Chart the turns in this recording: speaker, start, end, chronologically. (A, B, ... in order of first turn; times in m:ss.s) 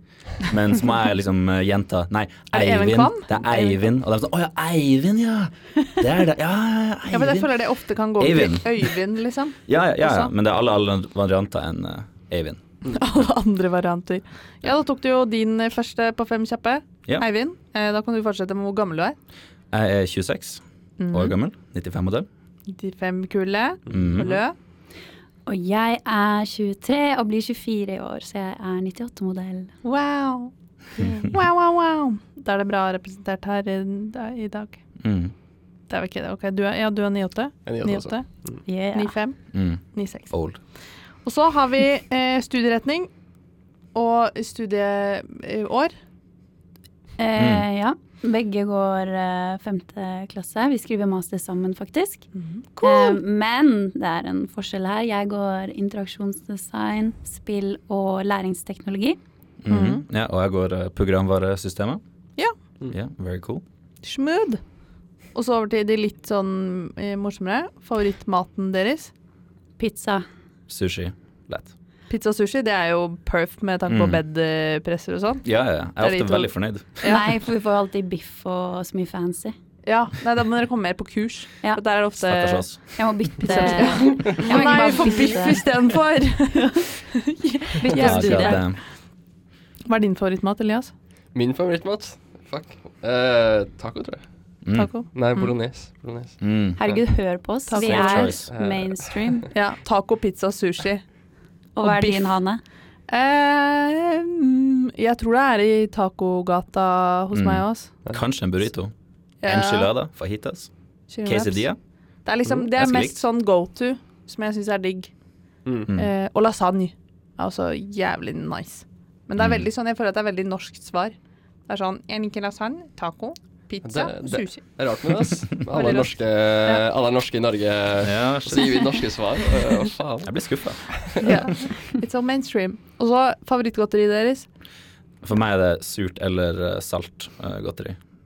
0:00.4-0:07.5 A
0:02.5-0:03.8 B
0:07.1-0:10.3 B
0:08.2-0:09.0 A
0:09.7-0:12.6 A
0:12.9-0:19.2 B
0:19.7-0:22.3 A
0:21.0-0:21.4 B
0:22.7-0:24.6 B
0:23.9-0:24.4 A
0:25.5-0:29.7 C
0:29.8-0:34.8 B
0:35.0-0:35.3 A
0:35.9-0:38.2 B
0:37.7-0:38.6 D
0:38.7-0:39.2 C
0:38.9-0:39.4 B
0:39.5-0:40.6 A
0:39.9-0:40.3 B
0:41.2-0:43.1 B
0:43.9-0:45.9 B
0:47.2-0:52.3 C
0:47.4-0:47.6 A
0:52.4-0:53.2 B
0:52.8-0:59.2 C
0:59.6-1:02.0 A
0:59.7-1:00.0 B
1:02.9-1:03.6 A
1:04.0-1:04.6 B
1:05.4-1:09.1 B
1:09.8-1:10.2 C
1:10.7-1:11.7 A
1:12.1-1:17.3 B
1:13.9-1:14.2 A
1:15.4-1:17.0 A
1:17.0-1:19.5 C
1:19.8-1:22.7 B
1:22.2-1:22.8 A
1:23.0-1:25.7 C
1:23.4-1:28.8 B
1:24.0-1:24.3 D
1:27.8-1:28.6 C
1:27.9-1:28.8 A
1:29.9-1:30.9 B
1:31.4-1:34.2 D
1:34.6-1:34.9 A
1:34.7-1:35.1 B
1:35.1-1:37.0 D
1:36.4-1:36.8 A
1:36.8-1:39.5 C
1:37.7-1:38.4 B
1:37.8-1:38.5 A
1:38.5-1:39.4 D
1:39.5-1:41.0 B
1:41.8-1:42.6 C
1:41.8-1:42.3 B
1:43.1-1:47.9 B
1:47.3-1:48.9 A
1:49.4-1:49.9 B
1:49.4-1:50.7 A
1:51.1-1:51.6 B
1:51.2-1:51.8 A
1:52.2-1:55.1 B
1:52.7-1:53.2 A
1:55.7-1:55.9 D
1:55.9-2:01.2 B
1:59.4-1:59.7 A
2:01.7-2:04.6 B
2:03.8-2:10.3 D
2:05.7-2:06.8 B
2:08.0-2:09.0 A
2:10.2-2:11.3 A
2:10.9-2:11.3 D
2:11.2-2:14.5 B
2:15.2-2:18.0 A